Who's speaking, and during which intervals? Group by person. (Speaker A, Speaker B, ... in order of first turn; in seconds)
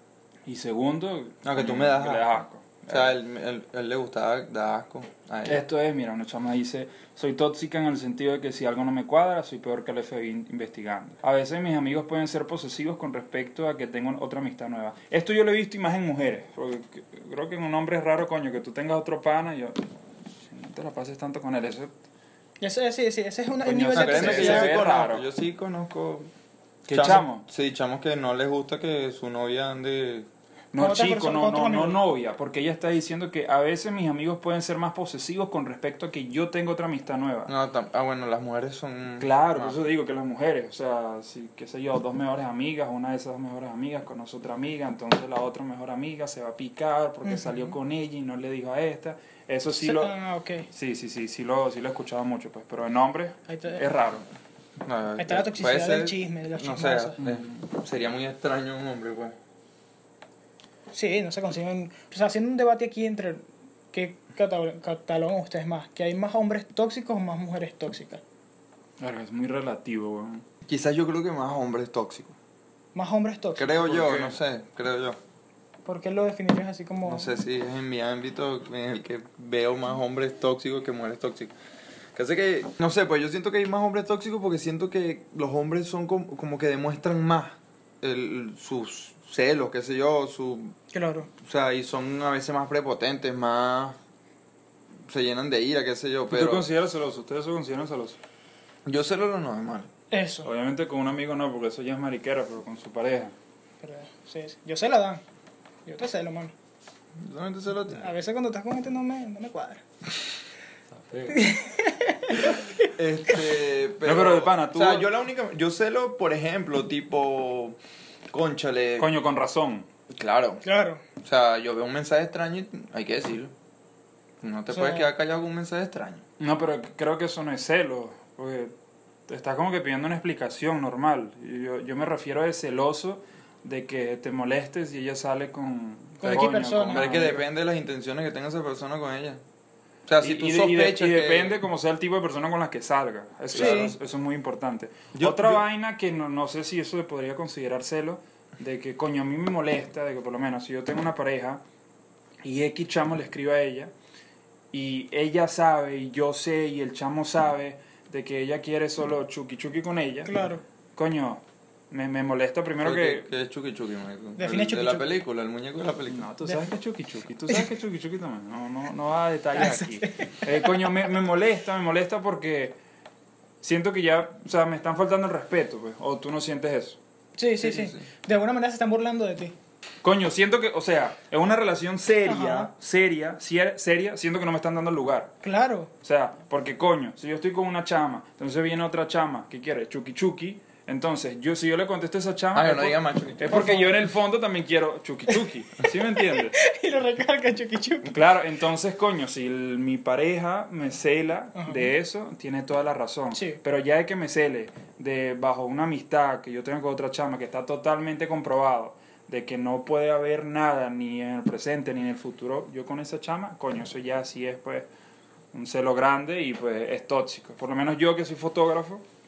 Speaker A: 0.5-3.1, 5.5-19.9, 20.4-21.9, 23.6-25.3, 26.9-27.4, 30.7-37.5, 39.2-50.1, 50.7-54.3, 57.2-57.5, 69.0-70.5, 73.8-74.4, 96.3-98.2, 100.4-103.3, 110.9-111.4, 114.0-115.1, 119.0-119.9, 126.4-128.7, 129.3-137.4, 140.2-151.6, 152.4-153.9, 154.7-160.3, 161.0-163.3, 166.1-172.8, 173.6-177.0, 180.0-185.3, 186.0-196.6, 198.0-214.9, 215.5-219.0
Speaker B: 1.4-2.4, 2.9-5.6, 23.9-26.3, 26.9-30.3, 37.5-39.8, 54.8-59.4, 70.7-72.4, 73.6-75.2, 77.1-81.5, 82.2-90.8, 91.4-94.0, 95.1-96.7, 98.9-99.9, 107.2-108.0, 112.5-117.8, 118.3-119.1, 120.1-120.6, 121.2-123.5, 124.4-126.2, 136.9-139.4, 140.1-141.6, 143.5-144.0, 145.1-145.7, 162.8-166.3, 177.6-178.1, 192.5-193.6
Speaker C: 22.6-24.7, 30.8-32.0, 47.2-47.8, 49.7-50.7, 53.5-53.9, 55.2-57.2, 60.9-68.2, 73.0-73.7, 75.8-77.3, 90.9-91.3, 100.1-100.5, 103.8-105.2, 105.9-106.5, 107.9-109.8, 111.3-112.9, 120.6-121.0, 124.7-125.1, 136.2-137.4, 143.5-143.9, 160.2-160.6, 164.4-165.1, 166.4-166.7, 169.6-171.1, 177.4-179.5, 182.3-182.7, 185.4-185.9, 193.5-194.0, 196.2-198.2, 201.6-201.9, 203.3-203.6